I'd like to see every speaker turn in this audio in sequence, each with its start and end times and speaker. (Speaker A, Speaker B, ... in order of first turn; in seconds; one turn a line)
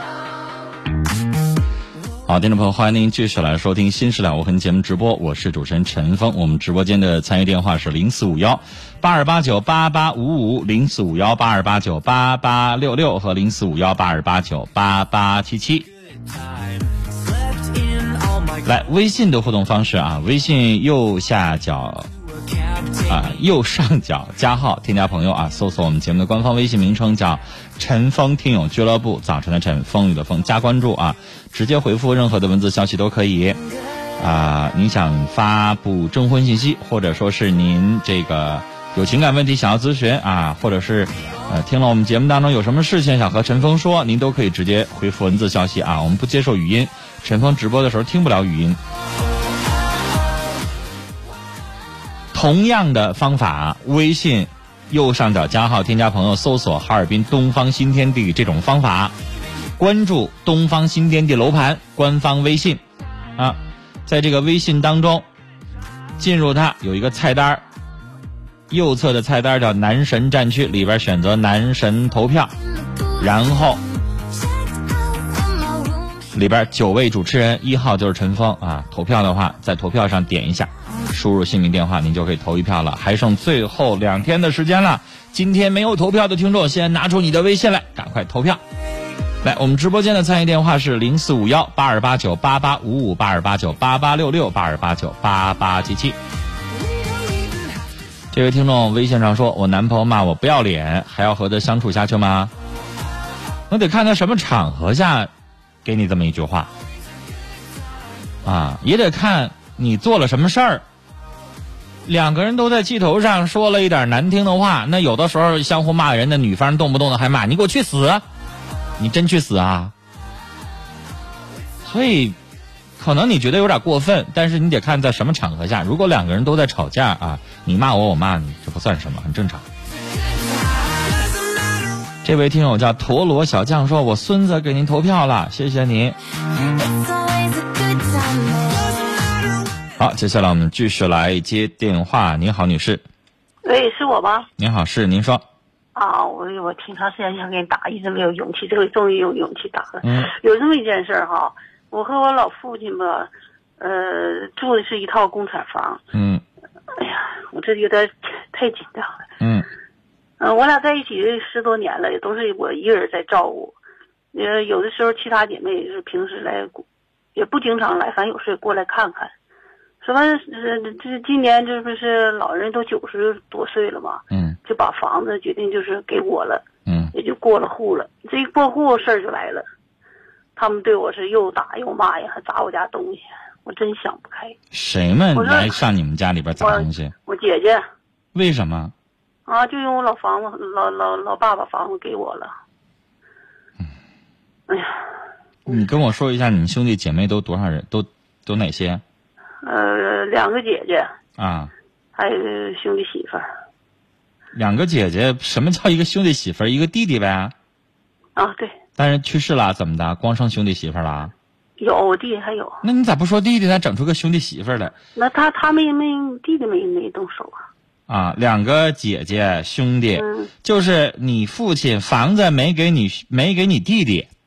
Speaker A: 2.2-15.9
Speaker A: 18.6-22.1
Speaker A: 23.0-33.6
Speaker A: 34.2-48.8
Speaker A: 52.3-59.1
Speaker A: 59.8-62.8
Speaker A: 63.4-65.2
Speaker A: 66.2-67.6
Speaker A: 68.7-72.5
Speaker A: 73.2-73.8
Speaker A: 76.3-88.6
Speaker A: 89.4-96.2
Speaker A: 98.3-102.5
Speaker A: 103.7-105.3
Speaker A: 105.8-106.7
Speaker A: 108.4-110.8
Speaker A: 112.0-118.2
Speaker A: 119.0-119.9
Speaker A: 121.8-122.4
Speaker A: 123.0-129.6
Speaker A: 132.2-136.2
Speaker A: 140.0-143.0
Speaker B: 143.6-144.5
Speaker A: 144.6-145.4
Speaker B: 145.9-156.0
Speaker A: 150.0-150.3
Speaker A: 156.1-156.4
Speaker B: 156.9-159.2
Speaker A: 159.4-159.7
Speaker B: 160.4-163.8
Speaker B: 164.3-166.8
Speaker B: 167.3-169.3
Speaker B: 170.0-176.6
Speaker A: 174.3-174.6
Speaker A: 176.8-177.1
Speaker B: 177.1-179.6
Speaker B: 180.6-184.6
Speaker A: 184.7-187.1
Speaker B: 185.3-185.8
Speaker B: 186.6-187.8
Speaker A: 188.3-188.9
Speaker B: 189.4-192.5
Speaker B: 194.7-195.0
Speaker A: 195.7-199.0
Speaker B: 199.6-201.1
Speaker A: 201.4-201.7
Speaker B: 202.1-203.5
Speaker A: 204.5-207.5
Speaker B: 208.3-208.7
Speaker A: 209.0-211.3
Speaker B: 211.8-212.8
Speaker A: 212.8-214.9
Speaker B: 215.1-217.7
Speaker A: 218.1-224.3
Speaker B: 220.1-220.5